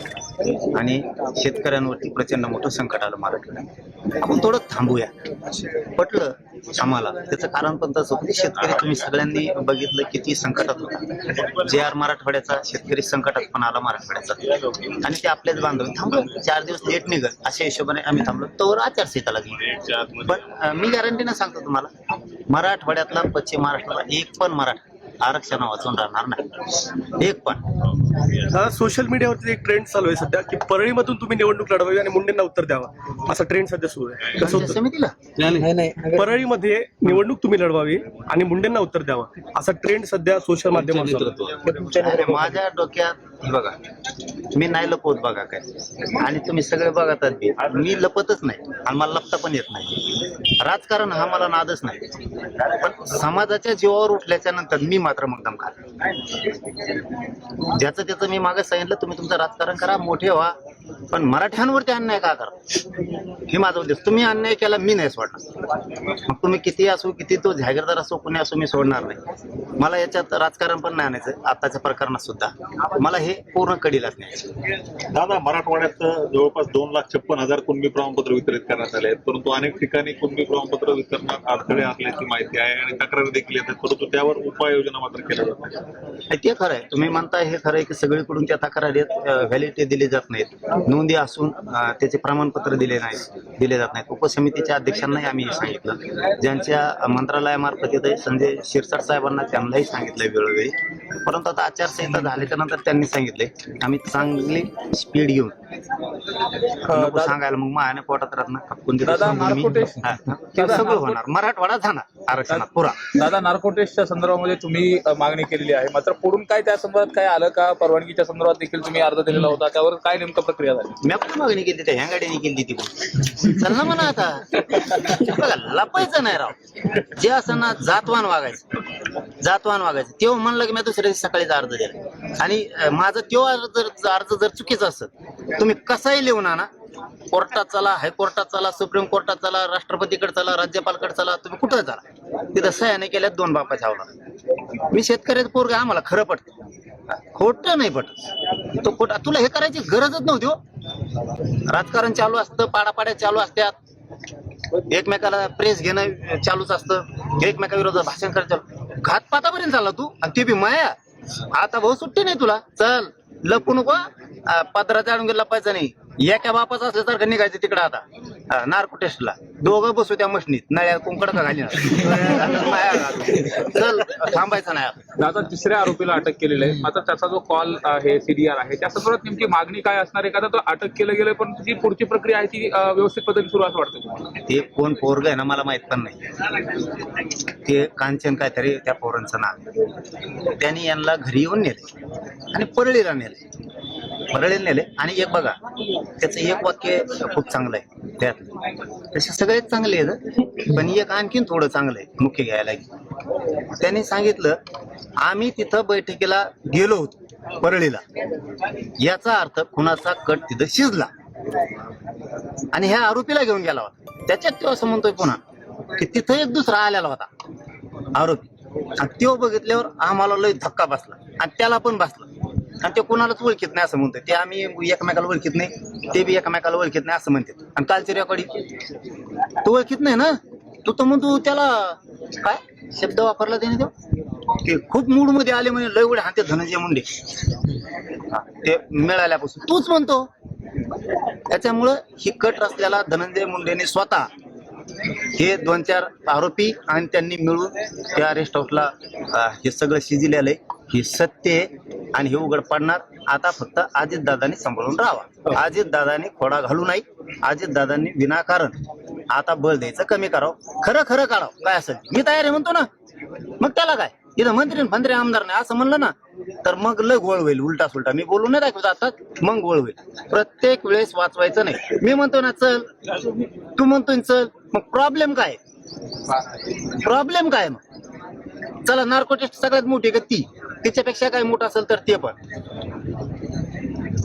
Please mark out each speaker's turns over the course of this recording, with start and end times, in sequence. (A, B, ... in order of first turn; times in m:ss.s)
0:00.6-0:03.7 A
0:04.2-0:05.1 A
0:05.7-0:21.9 A
0:22.5-0:26.5 A
0:27.0-0:27.6 A
0:28.5-0:34.8 B
0:34.4-0:35.2 A
0:35.4-0:36.2 C
0:36.1-0:41.4 B
0:40.8-0:42.5 C
0:41.9-0:43.8 A
0:44.5-0:55.8 A
0:57.6-1:00.6 A
1:01.1-1:02.6 A
1:03.5-1:05.4 A
1:06.3-1:09.2 A
1:09.8-1:14.5 A
1:15.1-1:25.8 C
1:26.3-1:40.7 A
1:41.2-1:45.5 A
1:46.6-1:53.1 A
1:46.9-1:47.4 D
1:49.0-1:51.2 D
1:52.5-2:01.0 D
2:01.0-2:16.7 A
2:17.3-2:22.0 A
2:22.5-2:24.1 A
2:24.8-2:26.5 A
2:27.1-2:28.2 A
2:28.7-2:30.6 A
2:31.7-2:33.8 A
2:34.9-2:41.0 A
2:41.5-2:55.1 A
2:55.2-3:04.3 D
3:04.5-3:06.2 A
3:07.6-3:09.6 A
3:10.4-3:11.8 A
3:12.5-3:13.4 A
3:14.3-3:15.6 A
3:16.2-3:18.5 A
3:19.1-3:22.8 A
3:23.8-3:24.6 A
3:25.2-3:28.0 A
3:29.0-3:31.1 A
3:32.7-3:35.4 A
3:36.0-3:37.3 A
3:38.1-3:38.4 A
3:39.0-3:42.3 A
3:42.8-3:48.5 A
3:49.6-3:53.9 A
3:54.6-3:57.1 A
3:58.3-4:00.3 A
4:01.5-4:04.3 A
4:05.3-4:18.7 A
4:19.3-4:22.9 A
4:23.6-4:32.9 A
4:33.8-4:35.6 A
4:36.8-4:37.8 A
4:38.8-4:42.4 A